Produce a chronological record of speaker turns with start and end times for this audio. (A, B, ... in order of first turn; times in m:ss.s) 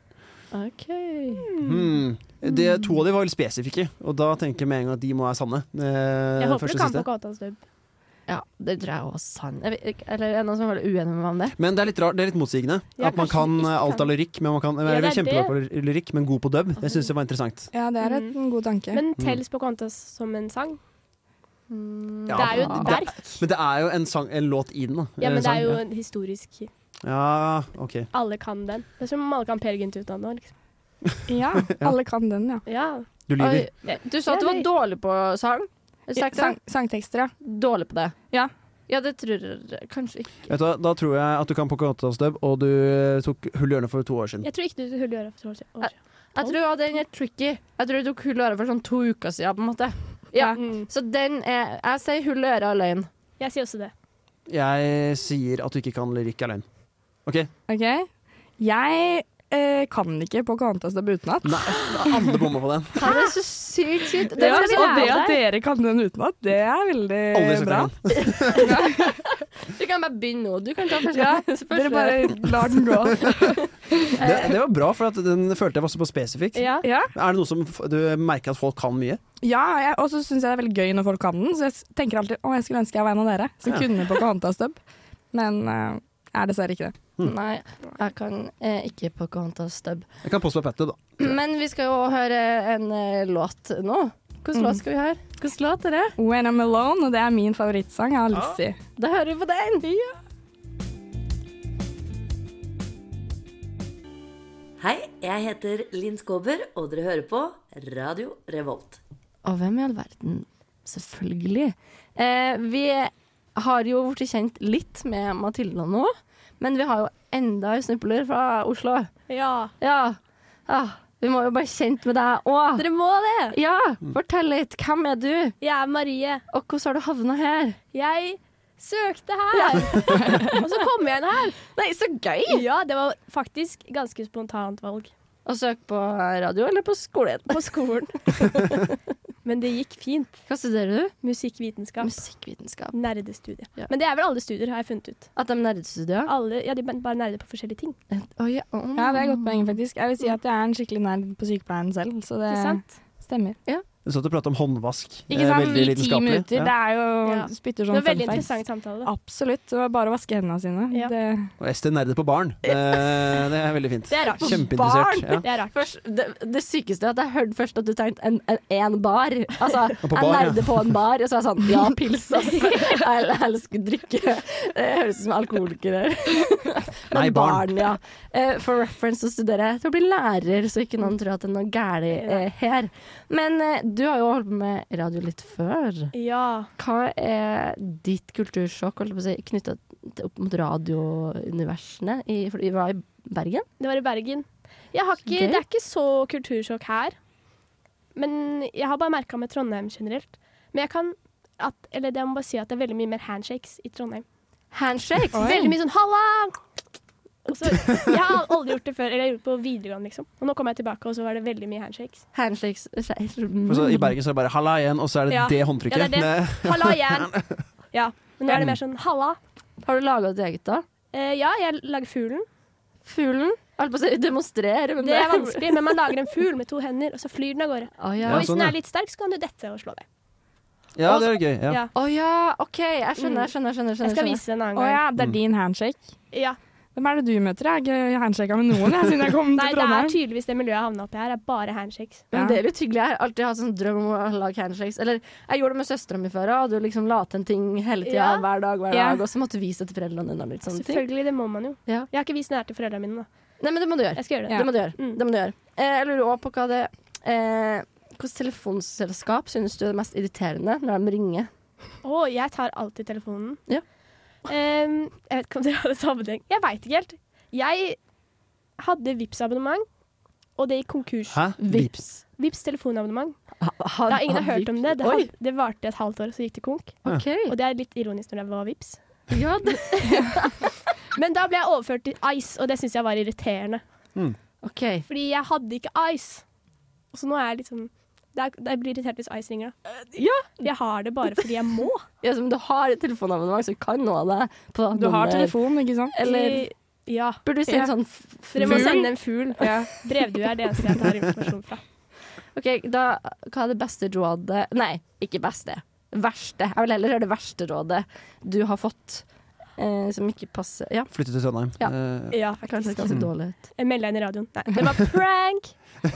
0:00.5-0:01.5 A
0:01.5-0:01.9 B
0:01.6-0:07.1 C
0:06.4-0:07.6 B
0:08.3-0:11.6 A
0:11.6-0:17.7 C
0:13.0-0:14.1 B
0:14.8-0:15.5 B
0:17.7-0:19.0 D
0:18.0-0:18.4 B
0:18.9-0:20.8 B
0:21.7-0:23.0 A
0:22.3-0:25.8 C
0:22.4-0:23.4 B
0:25.2-0:26.7 B
0:27.0-0:28.1 C
0:28.1-0:30.5 B
0:31.3-0:32.6 D
0:31.6-0:32.0 C
0:32.7-0:33.1 B
0:33.3-0:33.7 C
0:33.4-0:36.6 A
0:33.9-0:34.7 B
0:36.1-0:37.3 D
0:37.4-0:38.2 A
0:38.9-0:40.5 A
0:40.5-0:44.5 C
0:44.4-0:46.6 B
0:45.8-0:53.1 A
0:50.6-0:50.9 B
0:53.4-0:53.9 B
0:54.5-0:56.6 C
0:57.2-0:57.5 C
0:57.7-0:58.1 D
0:58.6-1:02.0 D
1:01.4-1:03.1 C
1:03.0-1:05.3 A
1:03.0-1:03.3 B
1:04.4-1:05.4 B
1:04.4-1:07.9 D
1:07.3-1:08.7 C
1:08.3-1:09.0 A
1:08.6-1:09.2 D
1:09.7-1:12.5 A
1:11.1-1:14.1 D
1:13.3-1:13.6 A
1:14.2-1:14.6 A
1:14.2-1:19.2 C
1:16.6-1:16.9 B
1:16.8-1:17.1 D
1:19.4-1:24.8 D
1:23.6-1:23.9 C
1:25.3-1:27.0 D
1:27.2-1:30.1 A
1:30.2-1:31.3 C
1:31.2-1:36.2 A
1:36.2-1:38.8 D
1:39.0-1:40.0 A
1:44.8-1:49.0 E
1:49.4-1:59.1 A
1:59.3-1:59.7 B
1:59.8-2:02.9 A
2:02.8-2:03.6 B
2:03.5-2:05.6 A
2:05.6-2:06.4 B
2:06.5-2:07.8 A
2:07.9-2:11.6 B
2:09.5-2:10.6 A
2:11.7-2:12.6 A
2:12.5-2:15.1 B
2:15.5-2:17.8 A
2:17.5-2:18.7 B
2:19.4-2:20.4 B
2:20.5-2:21.1 A
2:21.2-2:22.2 B
2:22.0-2:23.0 A
2:22.9-2:25.3 B
2:25.4-2:26.3 A
2:26.3-2:28.0 B
2:28.1-2:29.8 A
2:29.0-2:33.6 D
2:32.5-2:32.8 B
2:34.0-2:36.7 C
2:35.3-2:38.5 D
2:37.2-2:39.1 B
2:39.0-2:41.5 D
2:41.6-2:45.4 C
2:44.1-2:44.7 B
2:44.4-3:06.1 A
2:45.4-2:45.8 B
2:50.0-2:50.9 C
2:52.5-2:52.8 B
2:57.1-2:57.7 C
3:02.2-3:02.4 B
3:06.1-3:06.7 B
3:06.8-3:13.7 A
3:13.8-3:17.2 B
3:15.3-3:15.6 A
3:18.2-3:24.2 B
3:24.7-3:25.7 A
3:25.3-3:25.6 D
3:25.4-3:26.6 B
3:27.5-3:32.2 B
3:32.3-3:34.1 A
3:33.7-3:37.6 C
3:35.3-3:37.3 B
3:37.9-3:39.4 B
3:38.5-3:38.8 C
3:39.8-3:40.8 A
3:41.1-3:42.5 B
3:43.0-3:46.0 A
3:45.0-3:50.0 B
3:48.0-3:48.5 A
3:48.2-3:48.8 C
3:51.0-3:51.8 C
3:51.1-3:51.9 B
3:52.0-3:54.4 A
3:53.2-3:53.5 B
3:54.0-3:55.0 B
3:54.8-3:56.0 D
3:56.3-3:56.6 B
3:57.0-4:00.2 D
3:59.6-4:02.3 B
4:02.3-4:11.0 A
4:02.3-4:02.6 D
4:08.0-4:08.5 B
4:08.9-4:09.2 D
4:10.7-4:13.3 B
4:13.6-4:21.5 A
4:14.2-4:15.2 B
4:22.0-4:23.6 B
4:24.5-4:28.0 B
4:28.8-4:29.8 B
4:30.6-4:31.5 B
4:31.3-4:31.9 C
4:31.6-4:32.2 A
4:32.4-4:33.4 B
4:33.6-4:35.3 A
4:34.1-4:39.0 B
4:37.0-4:37.5 A
4:39.3-4:40.6 A
4:41.1-4:43.8 B
4:44.6-4:45.1 A
4:45.1-4:46.4 B
4:47.1-4:49.8 B
4:50.1-4:50.7 A
4:50.6-4:52.0 B
4:52.2-4:55.6 A
4:54.9-4:56.2 D
4:56.1-4:56.7 A
4:56.2-4:57.4 B
4:57.4-4:59.1 A
4:58.5-5:01.8 B
4:58.6-5:00.0 D
5:02.6-5:09.2 A
5:09.8-5:11.1 A
5:11.1-5:12.4 C
5:12.3-5:13.2 B
5:12.6-5:13.6 A
5:13.8-5:15.7 B